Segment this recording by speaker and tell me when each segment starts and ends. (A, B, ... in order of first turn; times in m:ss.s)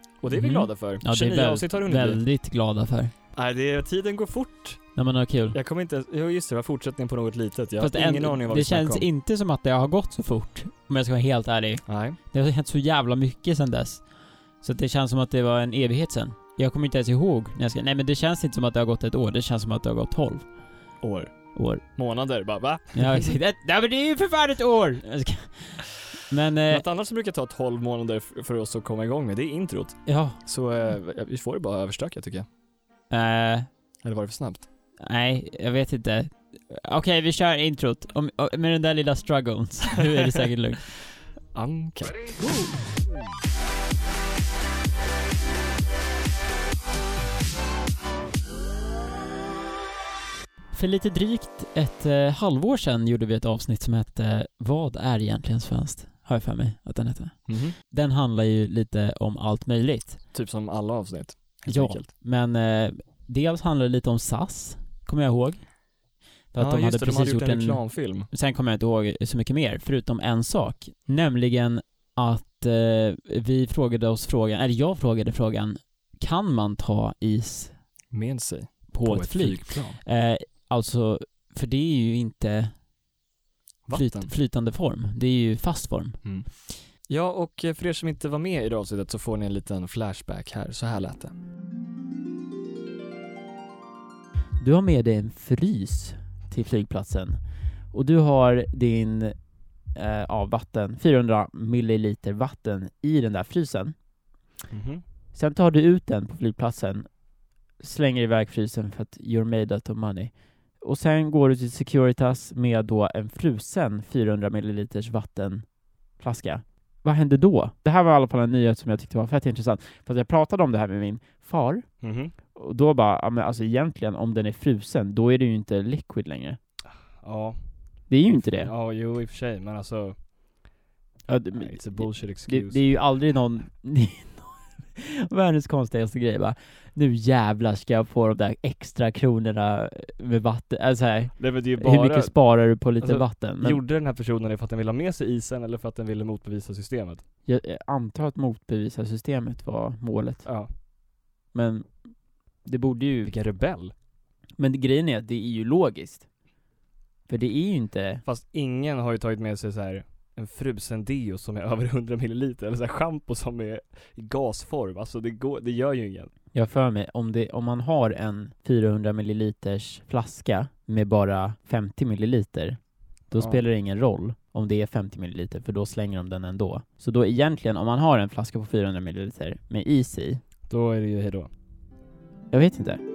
0:00.2-0:02.2 A
0:00.3-0:03.1 B
0:03.4-0:04.8 A
0:05.0-0:05.6 B
0:05.5-0:09.1 A
0:07.8-0:14.0 B
0:11.9-0:12.2 A
0:14.6-0:20.4 B
0:21.0-0:21.4 A
0:21.5-0:21.8 B
0:22.0-0:23.4 A
0:23.0-0:26.8 B
0:26.7-0:32.5 A
0:30.1-0:30.4 B
0:33.1-0:33.7 B
0:34.0-0:34.7 A
0:35.0-0:40.8 B
0:41.5-0:42.4 A
0:50.7-1:00.2 B
0:57.5-0:57.8 A
1:00.3-1:02.1 A
1:01.7-1:05.6 B
1:06.5-1:07.8 B
1:06.6-1:08.3 A
1:08.3-1:17.7 B
1:18.1-1:20.0 A
1:18.9-1:22.7 B
1:23.9-1:24.3 A
1:23.9-1:26.2 B
1:27.1-1:31.3 A
1:34.6-1:37.4 B
1:37.9-1:39.4 B
1:40.0-1:44.0 B
1:44.7-1:45.0 A
1:45.4-1:47.1 B
1:47.8-1:55.6 B
1:56.2-2:01.8 B
2:02.0-2:02.3 A
2:02.6-2:06.6 B
2:07.2-2:07.6 A
2:08.1-2:08.7 B
2:08.4-2:10.2 A
2:11.3-2:23.8 B
2:11.6-2:12.8 A
2:21.4-2:22.3 A
2:23.0-2:27.2 A
2:27.5-2:30.4 B
2:30.4-2:30.7 A
2:31.5-2:31.9 B
2:32.6-2:33.3 B
2:33.2-2:33.9 A
2:34.6-2:36.3 B
2:37.3-2:38.2 B
2:38.3-2:46.3 A
2:46.5-2:52.8 B
2:53.3-3:00.4 B
2:53.4-2:53.6 A
3:00.7-3:01.5 A
3:02.5-3:03.0 B